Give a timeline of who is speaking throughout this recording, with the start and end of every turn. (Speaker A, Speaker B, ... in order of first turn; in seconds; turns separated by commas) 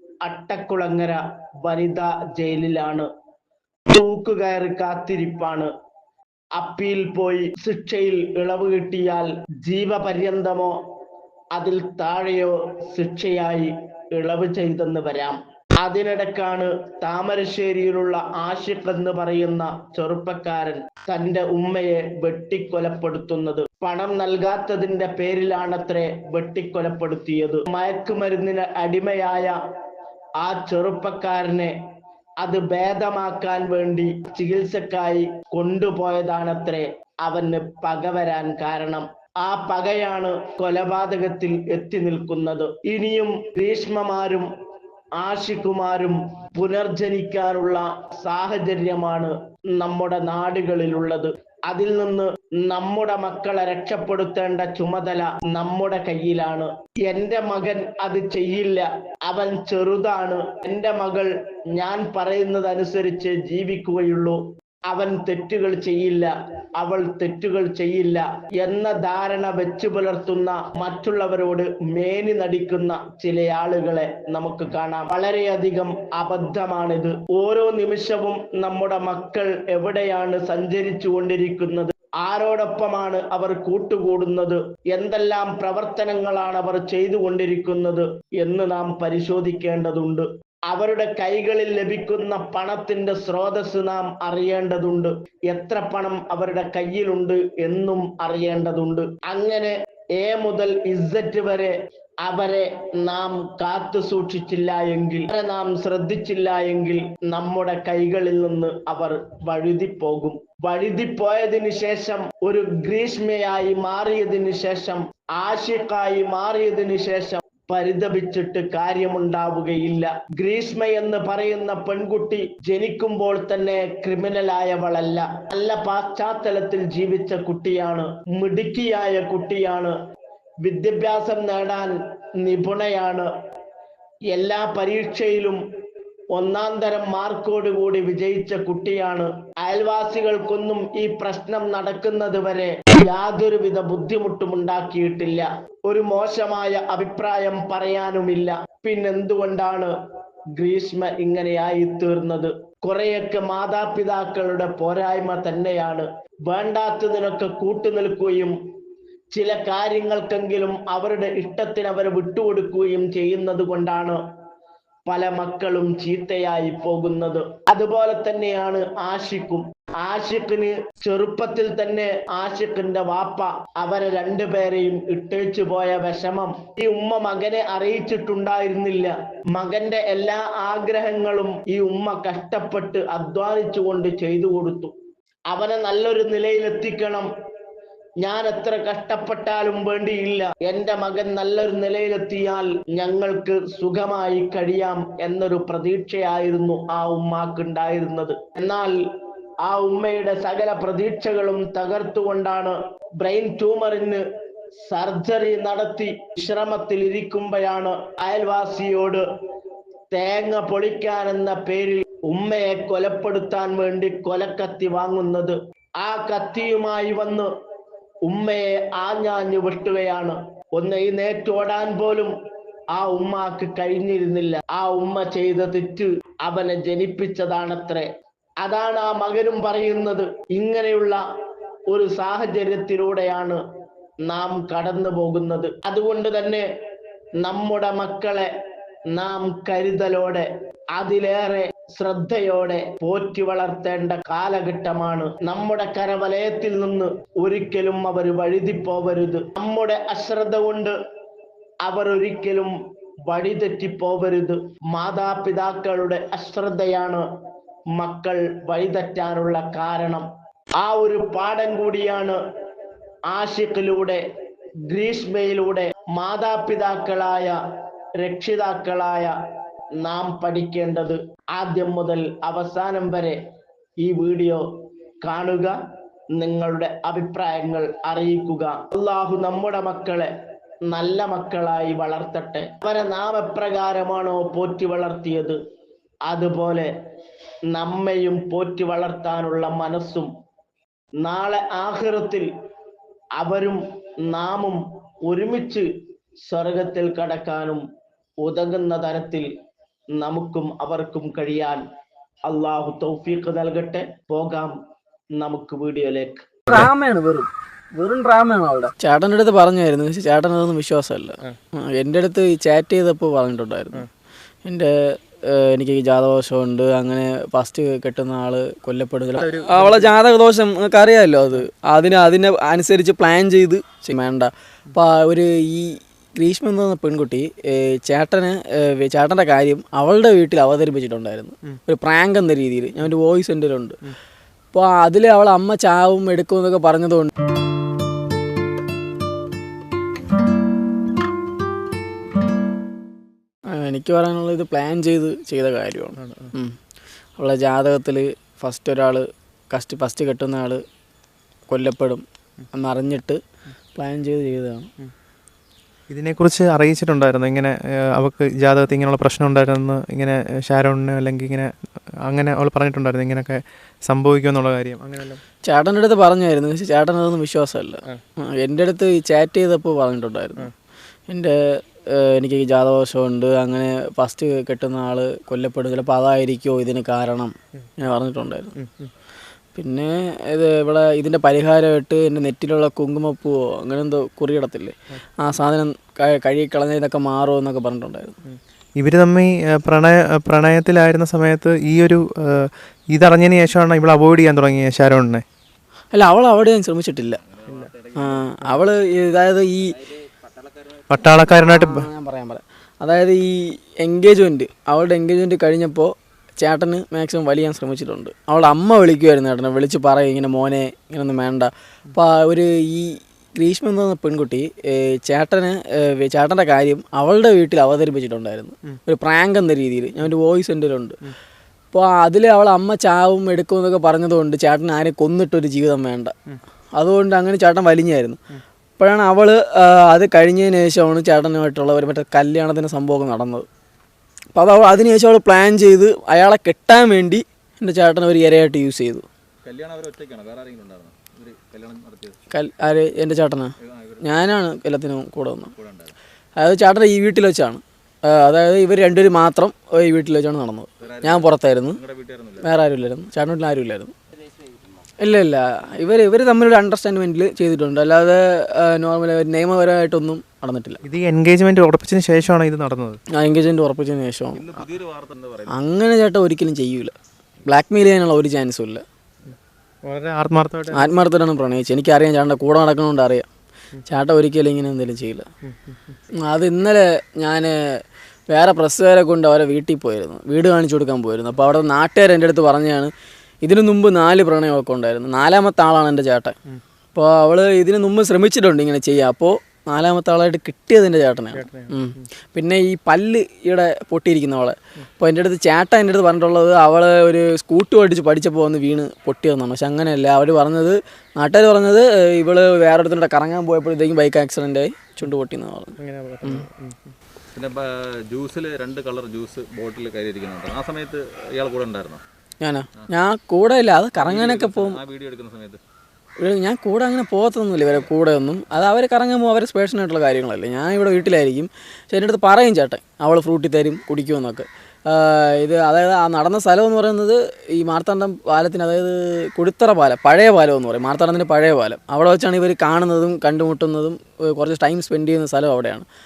Speaker A: 0.2-3.1, Speaker A: 3.9-5.7, Speaker A: 6.6-10.7, Speaker A: 11.6-29.6, Speaker A: 30.4-31.7, Speaker A: 32.4-44.5, Speaker A: 45.2-64.4, Speaker A: 64.9-101.7, Speaker A: 102.2-129.9, Speaker A: 130.6-131.9, Speaker A: 132.4-133.3, Speaker A: 134.3-135.6, Speaker A: 136.3-149.9, Speaker A: 150.6-158.5, Speaker A: 159.3-164.2, Speaker A: 165.1-184.9, Speaker A: 185.5-187.3, Speaker A: 188.2-199.0, Speaker A: 199.7-204.2, Speaker A: 204.9-209.2, Speaker A: 210.1-217.5, Speaker A: 218.3-222.3, Speaker A: 223.0-228.1, Speaker A: 228.6-231.2, Speaker A: 231.9-233.6, Speaker A: 234.3-236.6, Speaker A: 237.4-238.5, Speaker A: 239.2-250.9, Speaker A: 251.9-252.7, Speaker A: 253.3-257.2, Speaker A: 258.0-260.3, Speaker A: 260.8-262.4, Speaker A: 263.3-264.2, Speaker A: 264.9-267.6, Speaker A: 268.2-269.3, Speaker A: 270.0-273.4, Speaker A: 274.0-274.6, Speaker A: 275.2-275.7, Speaker A: 276.4-280.3, Speaker A: 280.9-285.6, Speaker A: 286.3-286.9, Speaker A: 287.7-290.3, Speaker A: 291.2-292.5, Speaker A: 293.4-295.9, Speaker A: 296.5-297.8, Speaker A: 298.4-299.5, Speaker A: 300.2-301.8, Speaker A: 302.5-304.7, Speaker A: 305.4-306.8, Speaker B: 306.7-314.1, Speaker B: 314.6-334.0, Speaker C: 319.4-320.1, Speaker B: 334.7-337.3, Speaker B: 343.7-346.8, Speaker C: 346.2-346.5, Speaker B: 347.4-350.8, Speaker B: 351.7-353.4, Speaker B: 353.9-354.9, Speaker C: 356.1-361.7, Speaker C: 362.3-365.4, Speaker B: 365.6-370.7, Speaker B: 371.3-378.8, Speaker C: 378.8-379.1, Speaker B: 379.8-388.4, Speaker C: 388.5-395.4, Speaker B: 396.1-397.4, Speaker D: 397.2-398.7, Speaker B: 398.1-400.4, Speaker C: 401.1-402.1, Speaker B: 401.5-421.2, Speaker B: 421.9-426.4, Speaker B: 426.9-428.4, Speaker B: 429.0-433.7, Speaker B: 434.6-439.3, Speaker D: 439.6-442.4, Speaker B: 442.5-445.7, Speaker D: 443.8-444.6, Speaker D: 445.7-446.2, Speaker B: 446.6-452.0, Speaker D: 451.0-452.8, Speaker B: 452.6-454.1, Speaker B: 455.2-461.0, Speaker C: 461.1-463.2, Speaker B: 463.3-464.9, Speaker D: 464.5-465.8, Speaker B: 465.7-467.1, Speaker B: 467.6-469.0, Speaker C: 470.1-471.1, Speaker B: 470.9-473.5, Speaker B: 474.1-475.5, Speaker C: 475.6-476.2, Speaker B: 476.4-483.1, Speaker B: 483.6-486.6, Speaker B: 487.1-506.7, Speaker C: 491.5-492.3, Speaker C: 506.0-507.1, Speaker D: 507.6-512.2, Speaker B: 512.6-515.0, Speaker D: 514.2-515.8, Speaker B: 516.4-536.1, Speaker D: 517.8-518.1